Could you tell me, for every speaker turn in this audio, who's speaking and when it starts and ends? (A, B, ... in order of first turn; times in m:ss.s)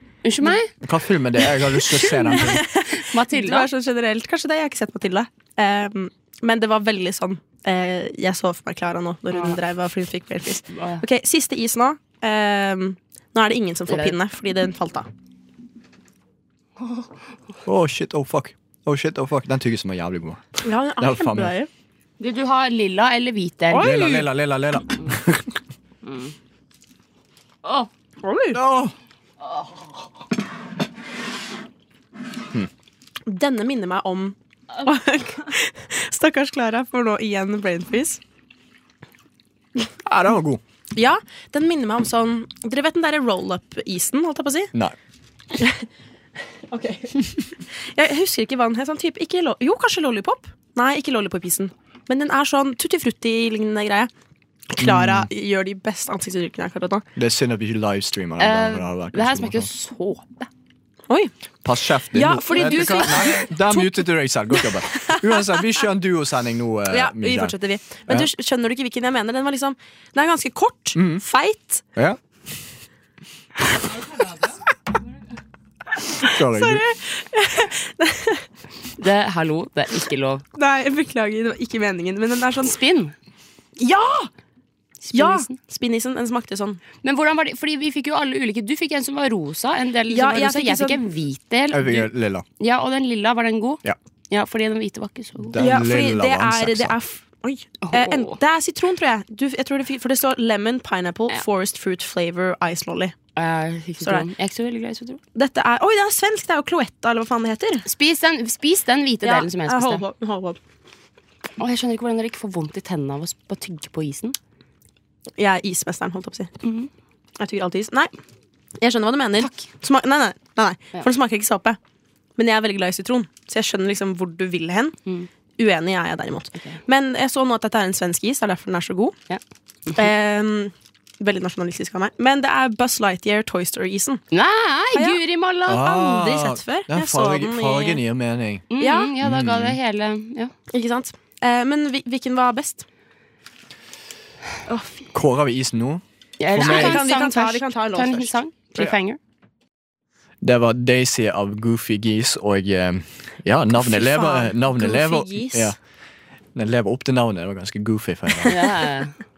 0:00.2-0:00.7 A
0:00.8-0:02.7 B
0:01.5-0:15.1 C
0:02.3-0:03.7 A
0:09.3-0:09.6 A
0:10.7-0:11.0 A
0:13.9-0:14.2 A
0:17.6-0:21.5 B
0:20.6-0:21.7 C
0:22.2-0:23.9 A
0:23.7-0:24.3 C
0:23.8-0:25.6 B
0:26.0-0:26.3 A
0:27.6-0:27.9 A
0:28.2-0:28.6 C
0:28.5-0:28.9 B
0:33.3-0:38.2 C
0:40.0-0:40.6 B
0:41.0-0:44.7 C
0:45.6-0:45.8 C
0:46.7-0:54.1 C
0:54.7-0:57.1 C
0:54.8-0:55.3 B
0:57.2-0:59.7 B
0:58.4-1:00.5 A
1:01.6-1:07.6 B
1:02.1-1:04.0 C
1:04.6-1:05.6 C
1:06.9-1:11.8 C
1:11.0-1:11.2 B
1:16.2-1:18.4 C
1:16.2-1:16.8 B
1:19.0-1:20.4 A
1:20.6-1:22.8 C
1:22.6-1:23.1 A
1:23.8-1:24.3 C
1:25.0-1:25.6 A
1:25.1-1:26.8 C
1:27.0-1:35.6 A
1:30.1-1:31.0 C
1:31.7-1:32.4 B
1:35.5-1:37.0 B
1:35.6-1:43.2 C
1:37.8-1:38.4 A
1:43.4-1:45.2 A
1:44.0-1:44.3 C
1:45.4-1:47.8 C
1:47.8-1:50.0 A
1:49.2-1:50.6 C
1:51.6-1:54.4 A
1:55.4-1:56.5 C
1:56.6-1:56.9 A
1:57.4-1:58.1 C
1:58.8-2:01.8 C
2:02.4-2:05.0 C
2:05.6-2:09.2 C
2:09.3-2:10.1 A
2:10.0-2:14.2 C
2:14.3-2:15.9 A
2:14.9-2:15.2 C
2:15.7-2:18.7 B
2:15.8-2:18.0 C
2:18.7-2:20.5 A
2:18.8-2:19.1 C
2:19.2-2:19.8 B
2:20.7-2:22.9 C
2:24.7-2:25.1 C
2:25.1-2:27.0 B
2:26.4-2:29.2 A
2:26.6-2:28.4 C
2:30.4-2:35.8 B
2:33.8-2:35.8 C
2:36.6-2:38.7 B
2:38.5-2:39.2 A